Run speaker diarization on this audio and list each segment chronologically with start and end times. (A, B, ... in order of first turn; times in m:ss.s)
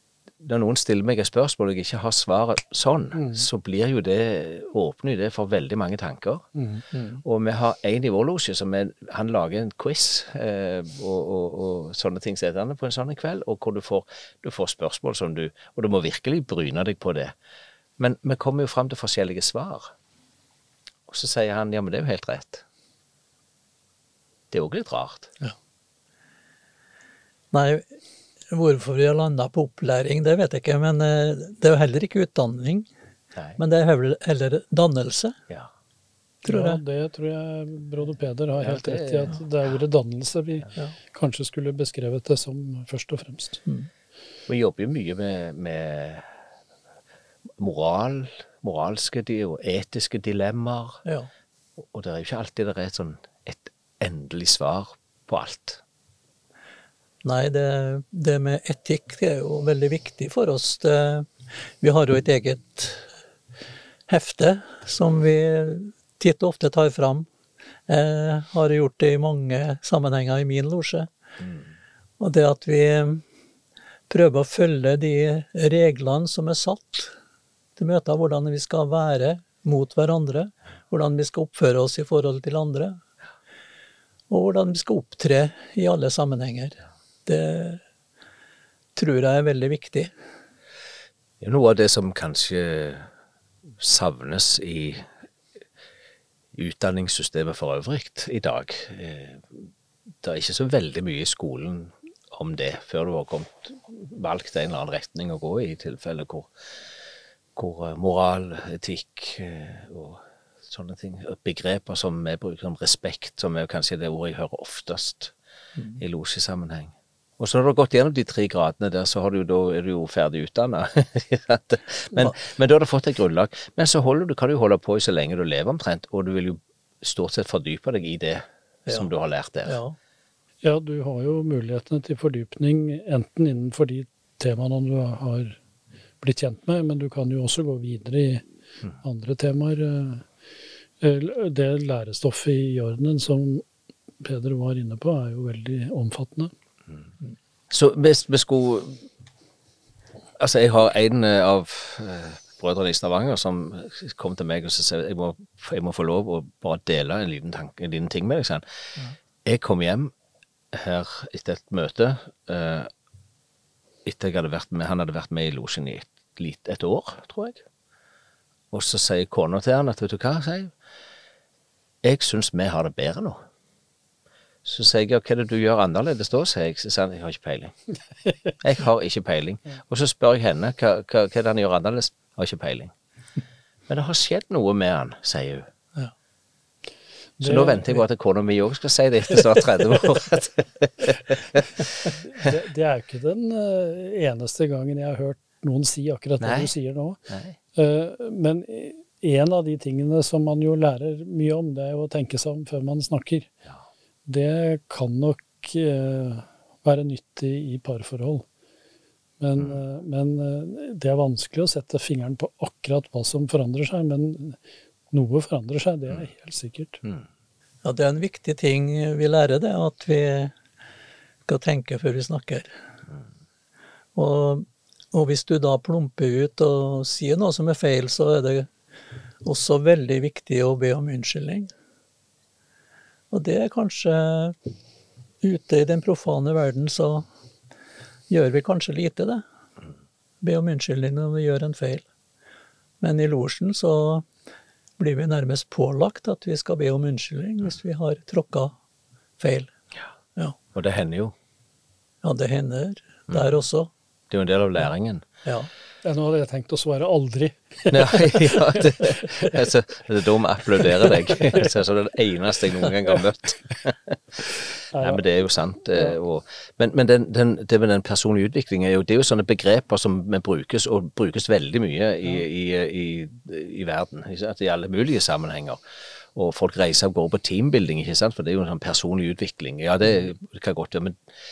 0:00.4-0:06.5 A
0:03.2-0:03.5 B
0:06.6-0:06.8 B
0:06.9-0:07.2 C
0:07.2-0:17.4 A
0:18.0-0:19.9 A
0:21.1-0:22.6 A
0:24.5-0:25.3 A
0:27.5-0:27.9 C
0:28.5-0:32.9 C
0:33.3-0:33.6 A
0:33.6-0:35.4 C
0:36.4-0:43.6 B
0:36.4-0:36.8 C
0:38.6-0:39.4 A
0:44.5-0:46.3 A
0:47.6-0:51.0 A
0:51.8-0:55.8 A
0:57.2-1:03.1 C
1:04.1-1:07.3 C
1:07.9-1:11.1 C
1:12.2-1:13.2 C
1:14.1-1:17.2 C
1:17.8-1:23.0 C
1:24.3-1:27.8 C
1:29.0-1:30.1 C
1:31.4-1:33.1 A
1:33.7-1:35.1 A
1:36.5-1:39.7 A
1:40.2-1:46.5 A
1:47.6-1:55.3 A
1:56.0-2:09.8 A
2:09.7-2:10.0 C
2:10.6-2:15.6 B
2:16.2-2:18.4 B
2:19.0-2:20.3 B
2:21.0-2:23.6 B
2:24.2-2:26.5 B
2:27.7-2:29.0 A
2:30.4-2:38.6 A
2:39.4-2:40.1 A
2:40.7-2:42.9 A
2:44.0-2:47.6 A
2:48.7-2:50.7 A
2:52.0-2:53.4 A
2:54.6-2:57.8 A
2:58.6-3:02.9 A
3:03.9-3:05.7 A
3:07.4-3:08.0 B
3:07.4-3:11.9 A
3:12.2-3:17.2 B
3:16.4-3:16.7 A
3:17.3-3:17.6 A
3:17.7-3:23.5 B
3:24.3-3:28.5 B
3:29.4-3:34.6 B
3:35.1-3:37.0 B
3:37.8-3:40.5 C
3:41.5-3:42.7 C
3:44.2-3:48.7 C
3:49.4-3:51.7 C
3:53.3-3:54.7 C
3:55.4-3:57.3 C
3:58.3-3:59.4 C
4:00.4-4:02.0 C
4:03.0-4:04.3 C
4:05.0-4:08.8 C
4:09.4-4:09.7 C
4:10.7-4:11.3 A
4:12.2-4:13.9 C
4:14.3-4:15.3 A
4:15.4-4:15.7 C
4:16.0-4:19.5 B
4:17.9-4:35.8 A
4:24.9-4:25.2 B
4:36.3-4:41.2 A